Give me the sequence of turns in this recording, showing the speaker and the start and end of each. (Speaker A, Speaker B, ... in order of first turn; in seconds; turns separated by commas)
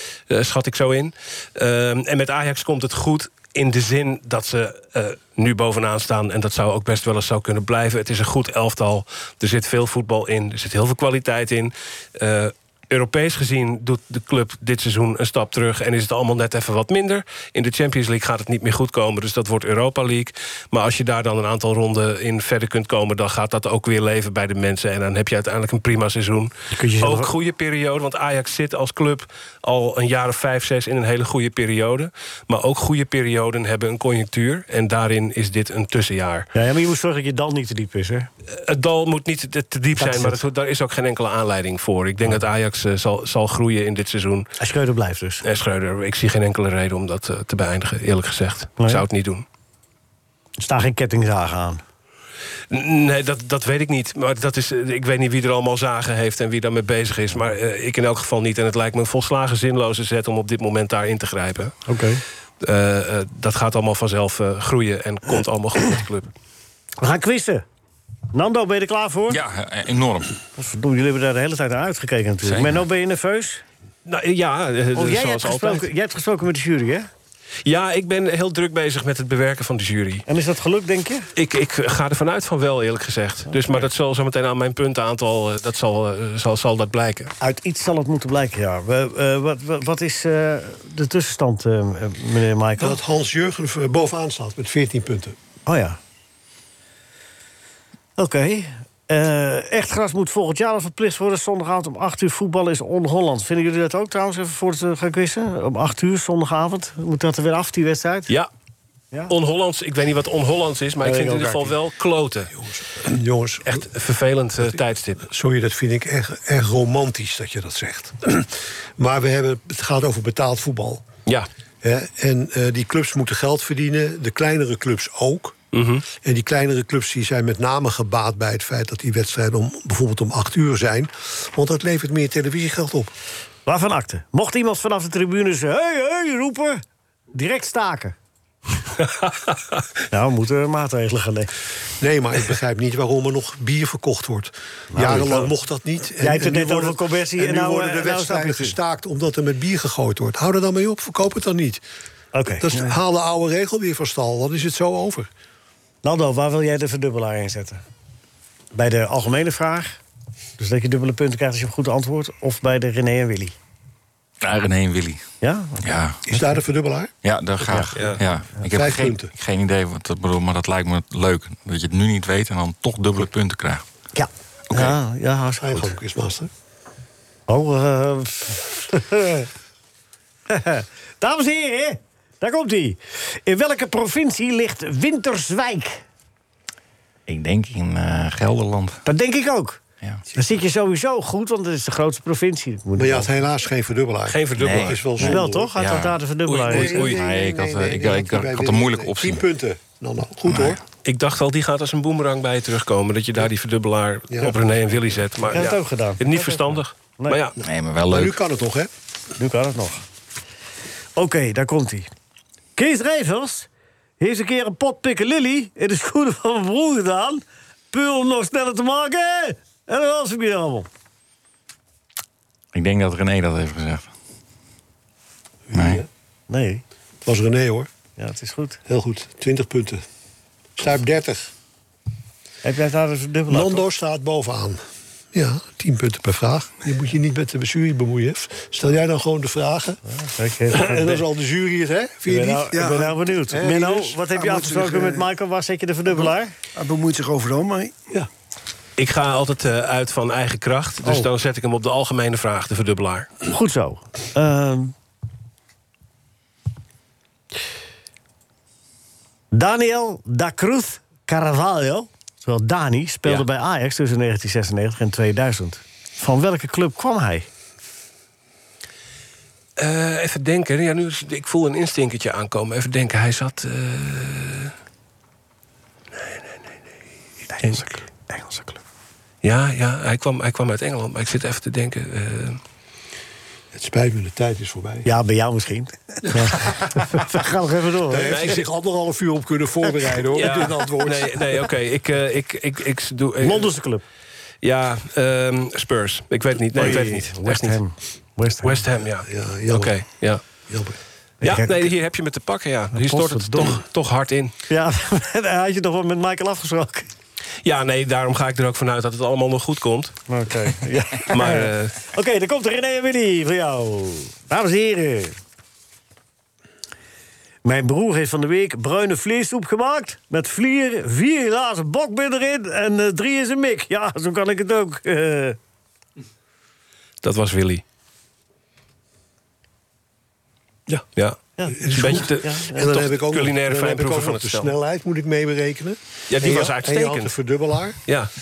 Speaker A: 0.3-36.5, Speaker B: 26.7-27.3, Speaker B: 36.5-38.3, Speaker A: 38.5-44.5, Speaker B: 40.0-40.4, Speaker B: 44.6-45.4, Speaker A: 45.4-49.4, Speaker B: 50.6-51.8, Speaker A: 52.7-61.8, Speaker B: 61.9-62.2, Speaker A: 62.6-66.3, Speaker B: 67.0-67.6, Speaker B: 68.3-69.4, Speaker C: 69.3-70.3, Speaker B: 70.6-73.6, Speaker C: 72.4-72.8, Speaker A: 74.1-75.9, Speaker B: 75.0-77.1, Speaker A: 77.7-80.2, Speaker B: 80.3-81.3, Speaker A: 81.4-87.3, Speaker B: 83.5-83.9, Speaker B: 87.4-93.0, Speaker D: 92.8-95.4, Speaker B: 95.7-96.0, Speaker B: 98.2-108.3, Speaker A: 109.3-112.5, Speaker B: 111.0-111.7, Speaker D: 112.6-113.8, Speaker A: 113.7-115.2, Speaker D: 115.2-121.1, Speaker D: 121.8-125.6, Speaker A: 125.7-126.0, Speaker D: 126.1-133.1, Speaker B: 133.7-138.2, Speaker B: 140.1-141.5, Speaker D: 142.0-151.8, Speaker B: 144.9-145.5, Speaker B: 146.2-148.8, Speaker B: 152.3-152.7, Speaker D: 152.6-155.3, Speaker B: 156.0-157.8, Speaker B: 158.7-160.0, Speaker B: 160.6-163.6, Speaker C: 164.4-165.2, Speaker B: 165.4-165.9, Speaker C: 165.8-166.2, Speaker D: 166.3-167.1, Speaker C: 167.2-173.8, Speaker B: 167.7-168.0, Speaker D: 168.7-169.3, Speaker B: 174.1-175.9, Speaker C: 174.7-174.9, Speaker D: 175.6-176.5, Speaker B: 177.5-179.5, Speaker B: 180.5-186.0, Speaker C: 187.3-189.0, Speaker B: 189.1-189.8, Speaker B: 190.3-193.3, Speaker D: 192.9-195.7, Speaker A: 194.3-195.1, Speaker C: 194.6-196.2, Speaker B: 195.2-197.1, Speaker A: 196.5-197.2, Speaker D: 196.7-200.8, Speaker C: 197.0-199.4, Speaker C: 200.5-200.8, Speaker A: 201.1-207.6, Speaker D: 204.3-204.6, Speaker B: 205.5-207.4, Speaker C: 207.6-208.3, Speaker D: 208.1-208.9, Speaker B: 209.4-210.0, Speaker B: 211.2-212.1, Speaker B: 212.8-213.7, Speaker B: 214.2-220.9, Speaker C: 222.7-224.1, Speaker D: 225.7-226.1, Speaker C: 225.7-226.0, Speaker B: 226.5-226.8, Speaker D: 227.2-227.9, Speaker B: 228.2-228.8, Speaker D: 228.9-230.0, Speaker D: 230.8-231.5, Speaker B: 232.6-233.8, Speaker D: 233.5-234.8, Speaker D: 235.3-240.0, Speaker B: 240.1-241.2, Speaker D: 240.7-244.2, Speaker B: 242.3-246.5, Speaker E: 242.7-243.2, Speaker E: 244.2-245.3, Speaker E: 246.8-248.0, Speaker A: 249.0-253.3, Speaker B: 253.5-254.9, Speaker B: 259.5-267.5, Speaker A: 269.8-274.7, Speaker A: 276.2-276.6, Speaker B: 277.5-278.8, Speaker A: 279.4-282.6, Speaker D: 283.7-285.1, Speaker B: 285.1-288.5, Speaker D: 286.2-287.0, Speaker D: 288.1-291.7, Speaker A: 288.3-288.6, Speaker A: 290.4-293.7, Speaker B: 293.4-294.0, Speaker A: 294.6-297.8, Speaker B: 296.8-298.8, Speaker A: 298.6-300.4, Speaker D: 299.2-300.0, Speaker D: 300.7-301.0, Speaker B: 301.4-301.9, Speaker A: 301.4-304.5, Speaker B: 302.9-303.8, Speaker B: 304.7-307.1, Speaker A: 307.6-310.1, Speaker B: 310.3-315.4, Speaker A: 311.3-312.0, Speaker B: 317.6-325.6, Speaker A: 327.2-327.8, Speaker A: 331.1-334.7, Speaker B: 331.6-333.0, Speaker D: 331.7-338.0, Speaker A: 336.3-337.3